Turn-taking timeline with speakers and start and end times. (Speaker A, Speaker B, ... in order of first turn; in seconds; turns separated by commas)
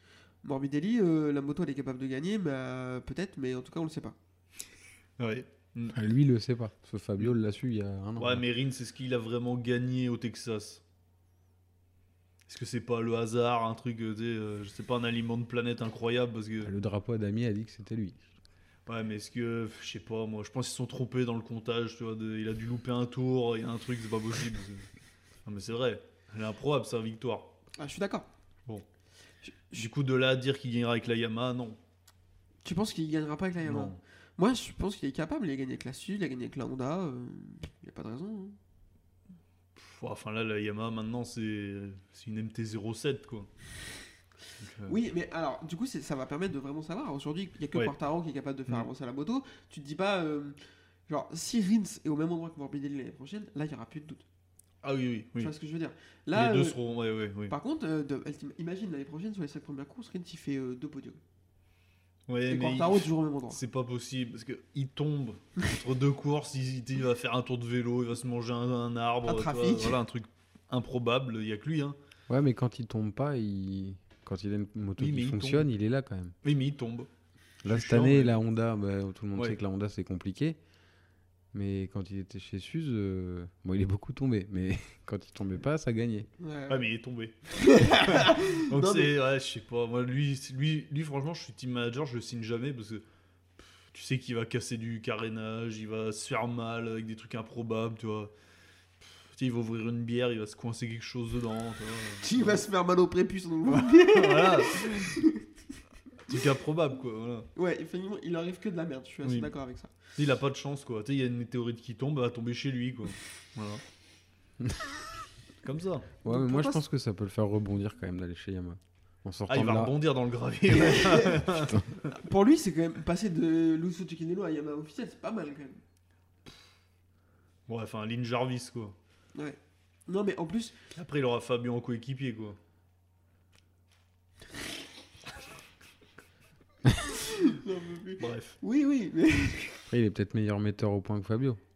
Speaker A: 0.4-4.2, Speaker B: 5.2-6.0, Speaker C: 5.9-8.4, Speaker B: 8.2-10.8, Speaker B: 12.5-16.7, Speaker C: 16.6-18.2, Speaker B: 18.9-24.9, Speaker B: 25.4-27.5, Speaker A: 27.8-28.3, Speaker A: 29.4-29.9, Speaker B: 29.7-31.8, Speaker A: 32.6-38.6, Speaker B: 33.6-34.0, Speaker B: 39.8-43.5, Speaker B: 44.6-45.0, Speaker A: 44.9-50.6, Speaker A: 51.1-54.2, Speaker B: 54.8-55.5, Speaker A: 55.4-56.8, Speaker B: 56.3-57.5, Speaker A: 57.5-61.2, Speaker B: 62.3-72.0, Speaker A: 62.5-63.6, Speaker A: 69.2-70.0, Speaker C: 72.3-76.3, Speaker B: 75.0-75.7, Speaker B: 76.4-77.1, Speaker C: 77.6-80.6, Speaker B: 77.6-78.4, Speaker C: 81.5-86.3, Speaker A: 86.4-86.8, Speaker B: 86.7-93.0, Speaker A: 87.6-89.1, Speaker B: 93.6-98.3, Speaker B: 99.0-102.6, Speaker A: 102.2-105.4, Speaker B: 103.7-105.2, Speaker B: 106.3-107.5, Speaker A: 107.5-109.9, Speaker B: 109.2-109.5, Speaker B: 110.2-113.8, Speaker B: 115.6-116.1, Speaker C: 116.2-119.9, Speaker A: 116.2-116.8, Speaker B: 119.5-122.1, Speaker A: 120.7-121.5, Speaker A: 122.0-125.8, Speaker B: 127.7-128.9, Speaker A: 129.3-130.8, Speaker B: 130.9-132.6, Speaker A: 137.1-139.8, Speaker B: 138.2-138.6, Speaker C: 139.9-141.6